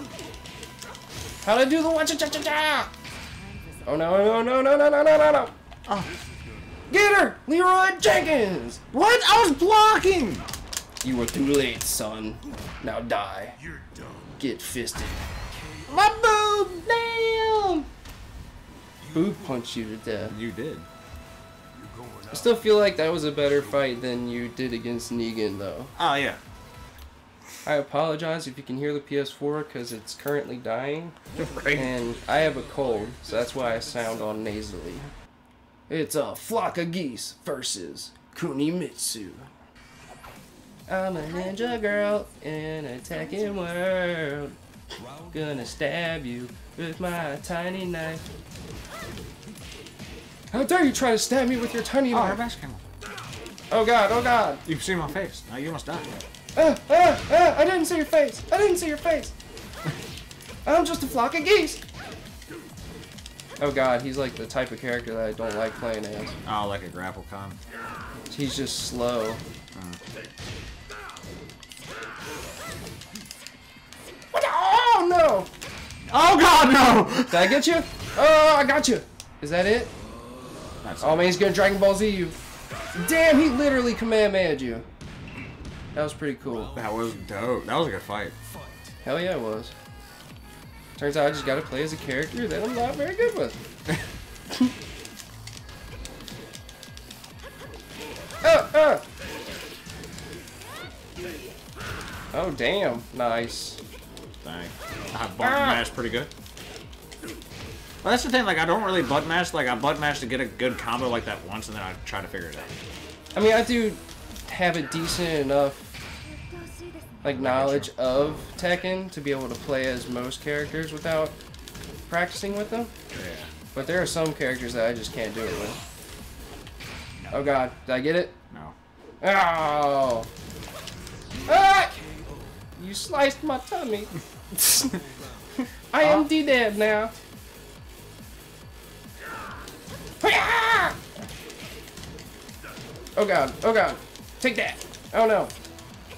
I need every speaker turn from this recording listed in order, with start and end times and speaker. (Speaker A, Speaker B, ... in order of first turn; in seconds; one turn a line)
Speaker A: 1.4-2.9
Speaker A: 3.9-5.5
Speaker B: 5.9-6.1
Speaker A: 6.9-8.8
Speaker B: 8.9-10.5
Speaker A: 11.0-13.6
Speaker A: 14.4-15.2
Speaker B: 15.9-17.9
Speaker A: 19.1-20.4
Speaker B: 20.3-20.9
Speaker A: 22.3-25.9
Speaker B: 26.0-26.4
Speaker A: 27.6-31.1
Speaker B: 31.4-32.0
Speaker A: 31.7-35.1
Speaker A: 35.9-39.5
Speaker A: 40.9-44.6
Speaker A: 45.3-48.2
Speaker A: 50.5-52.4
Speaker B: 52.1-52.8
Speaker A: 53.7-54.6
Speaker B: 54.7-56.1
Speaker A: 56.6-59.3
Speaker A: 60.6-61.8
Speaker A: 63.6-66.4
Speaker B: 66.5-67.6
Speaker A: 68.3-69.4
Speaker B: 69.7-70.0
Speaker A: 74.3-75.5
Speaker B: 76.1-77.6
Speaker A: 77.3-79.9
Speaker B: 80.8-81.3
Speaker A: 81.0-82.4
Speaker A: 83.0-84.9
Speaker A: 85.9-86.8
Speaker B: 86.7-88.3
Speaker A: 89.0-89.7
Speaker A: 91.0-93.6
Speaker A: 98.4-99.0
Speaker A: 102.3-103.8
Speaker B: 104.4-106.3
Speaker A: 105.4-105.9
Speaker B: 108.0-112.7
Speaker A: 113.3-115.9
Speaker A: 117.2-121.4
Speaker B: 117.3-117.9
Speaker A: 122.1-122.9
Speaker B: 123.1-123.5
Speaker A: 123.7-125.8
Speaker A: 127.3-128.3
Speaker A: 129.2-130.3
Speaker A: 131.5-132.0
Speaker A: 132.8-135.0
Speaker A: 135.6-137.1
Speaker B: 136.0-136.3
Speaker A: 140.2-141.0
Speaker A: 143.2-145.5